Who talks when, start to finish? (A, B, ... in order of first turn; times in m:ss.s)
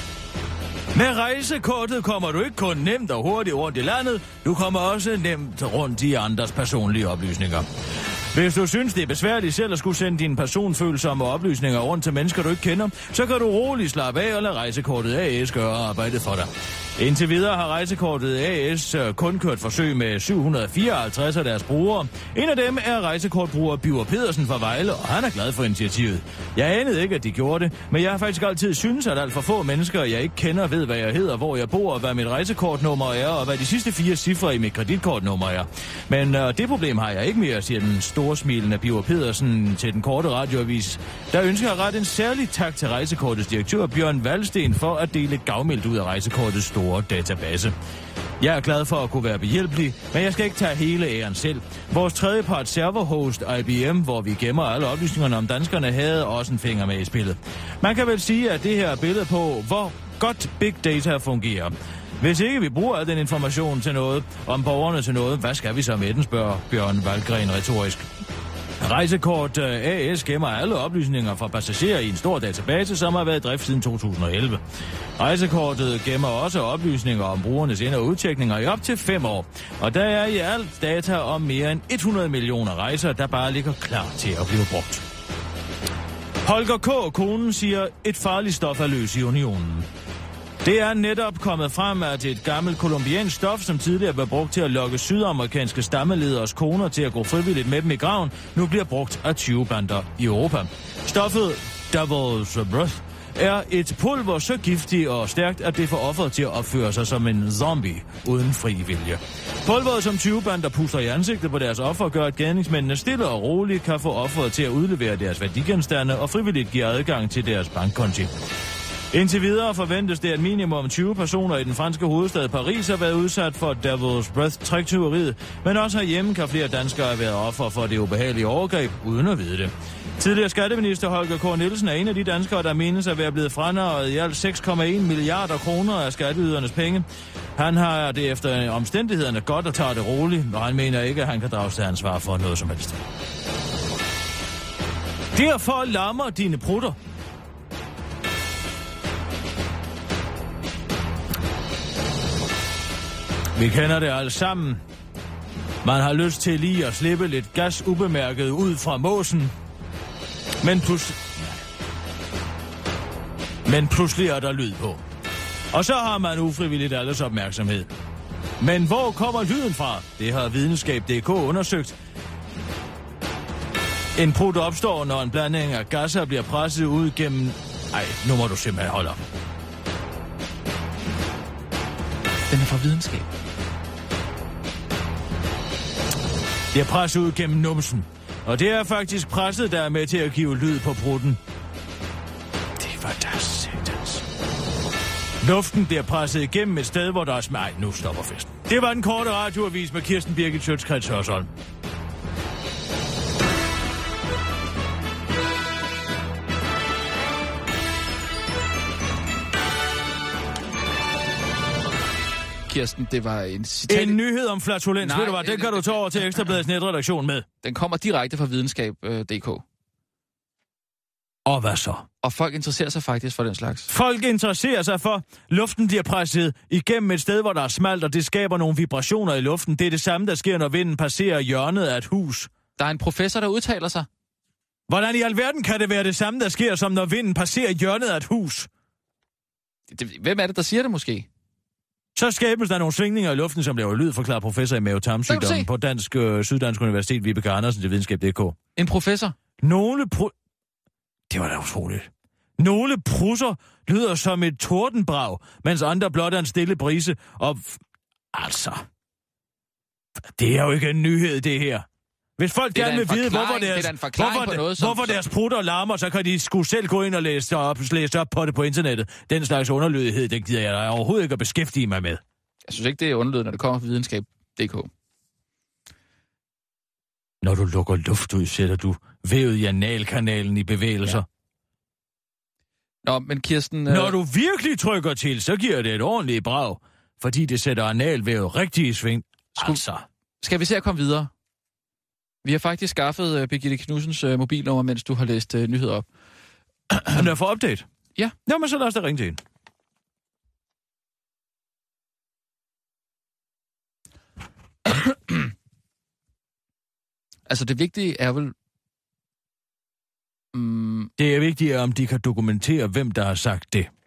0:00.9-0:07.7 A
0:08.3-0:47.8 A
0:48.4-1:08.1 A
1:08.8-1:14.6 A
1:15.2-1:25.0 A
1:26.4-1:29.9 A
1:30.6-1:58.3 A
1:59.1-2:23.0 A
2:25.3-2:27.0 A
2:33.6-2:34.8 A
2:35.8-2:39.5 A
2:40.6-2:41.6 A
2:43.6-2:45.0 A
2:45.7-2:47.9 A
2:48.6-2:52.0 A
2:54.2-2:59.2 A
3:02.5-3:03.3 B
3:06.7-3:11.4 A
3:12.8-3:14.2 A
3:15.4-3:21.5 A
3:32.7-3:34.2 B
3:33.9-3:37.5 A
3:35.0-3:36.2 B
3:37.6-3:39.6 B
3:41.5-3:42.1 A
3:42.2-3:43.9 B
3:43.9-3:52.5 A
3:52.8-3:54.1 B
3:54.9-3:58.7 A
3:59.9-4:01.3 B
4:02.2-4:08.6 A
4:05.3-4:05.7 B
4:08.8-4:09.4 B
4:09.6-4:10.3 A
4:11.3-4:17.8 A
4:18.3-4:18.9 A
4:20.4-4:21.9 A
4:22.4-4:32.2 A
4:22.8-4:25.2 B
4:32.7-4:34.9 B
4:37.4-4:41.3 A
4:43.0-4:44.2 B
4:43.9-4:50.1 A
4:50.4-4:51.3 B
4:52.4-4:56.1 B
4:56.9-4:57.2 B
4:57.1-4:57.9 A
4:58.5-4:59.4 A
5:04.9-5:05.5 B
5:07.5-5:08.5 B
5:10.5-5:11.1 B
5:11.2-5:13.9 A